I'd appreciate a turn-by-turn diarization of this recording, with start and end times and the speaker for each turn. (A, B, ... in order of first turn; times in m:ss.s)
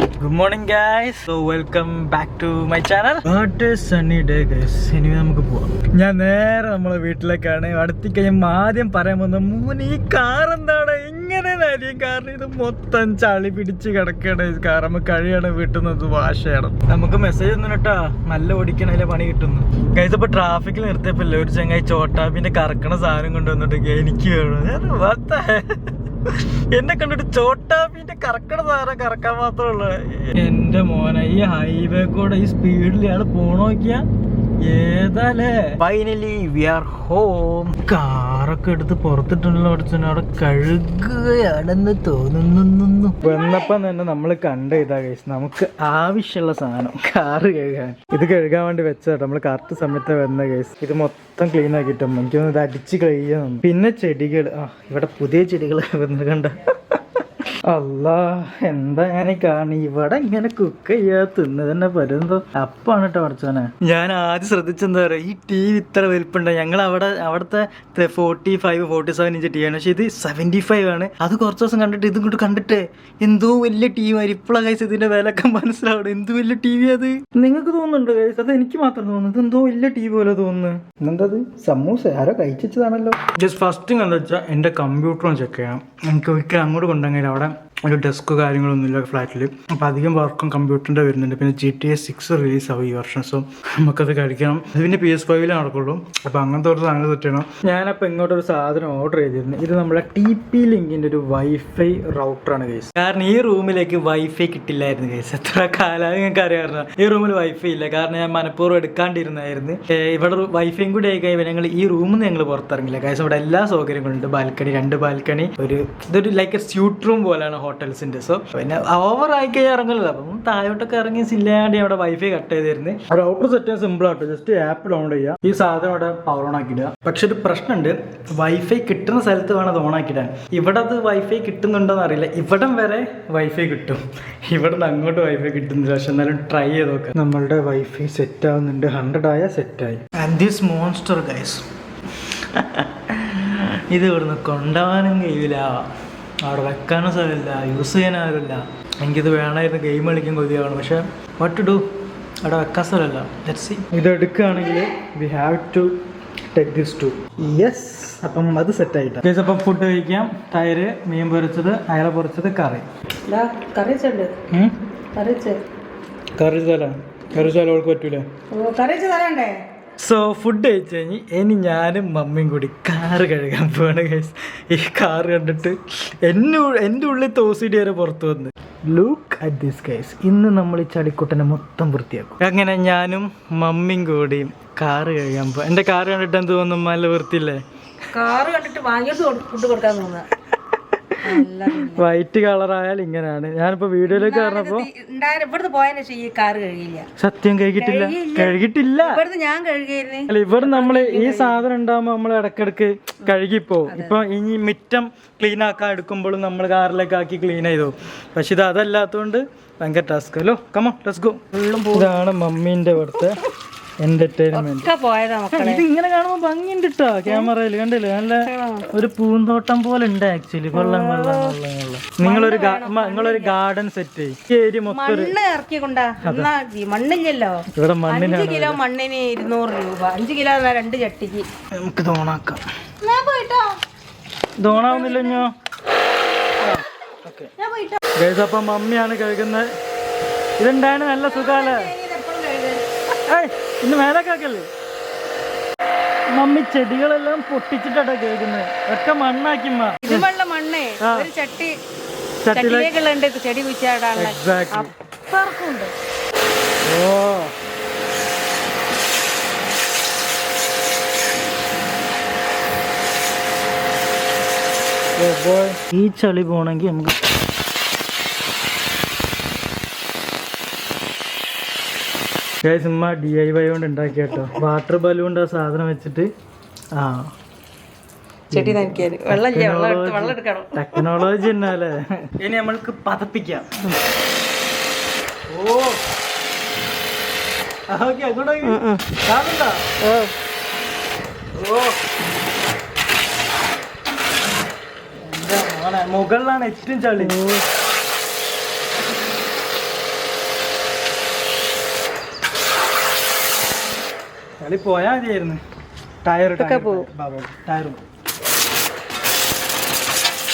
0:00.2-0:34.0 A
0:34.6-0:57.0 A
0:43.2-0:43.7 B
0:57.7-2:21.7 A
2:22.3-2:25.9 A
2:26.4-2:31.8 A
2:32.4-2:35.9 A
2:36.5-2:42.9 A
2:43.2-2:44.3 B
2:44.5-2:44.8 A
2:45.1-2:45.6 B
2:46.4-2:48.2 A
2:48.5-2:49.6 B
2:50.0-3:07.6 A
3:08.1-3:10.3 B
3:11.0-3:14.9 A
3:11.2-3:12.1 B
3:14.0-3:17.1 B
3:17.2-3:19.2 A
3:17.8-3:21.6 B
3:20.3-3:33.4 A
3:23.9-3:24.2 B
3:31.5-3:32.1 B
3:34.0-3:34.9 A
3:34.5-3:35.8 B
3:35.5-3:45.3 A
3:37.3-3:37.5 B
3:38.4-3:38.9 B
3:40.7-3:41.6 B
3:42.2-3:43.6 B
3:44.9-3:51.5 B
3:46.2-3:46.5 A
3:47.7-3:48.8 A
3:51.7-3:52.6 A
3:53.0-3:53.8 B
3:54.6-3:55.5 A
3:54.6-3:55.4 B
3:56.6-3:57.5 A
3:57.6-3:58.0 B
3:58.1-3:59.7 A
4:00.6-4:01.9 A
4:01.2-4:02.8 B
4:03.1-4:04.7 A
4:06.3-4:10.3 A
4:10.0-4:11.7 B
4:11.0-4:11.3 A
4:12.4-4:12.9 A
4:12.5-4:15.9 B
4:14.1-4:14.9 A
4:16.8-4:17.5 A
4:25.2-4:27.2 A
4:32.6-4:36.3 A
4:36.9-4:37.3 A
4:38.5-4:43.7 A
4:38.5-4:41.5 B
4:45.5-4:46.0 A
4:47.9-4:49.8 A
4:48.6-4:49.1 B
4:50.0-4:50.3 B
4:51.5-4:52.0 A
4:55.2-4:57.4 A
4:57.2-4:57.6 B
5:04.6-5:05.6 A
5:06.2-5:08.0 A
5:06.6-5:07.1 B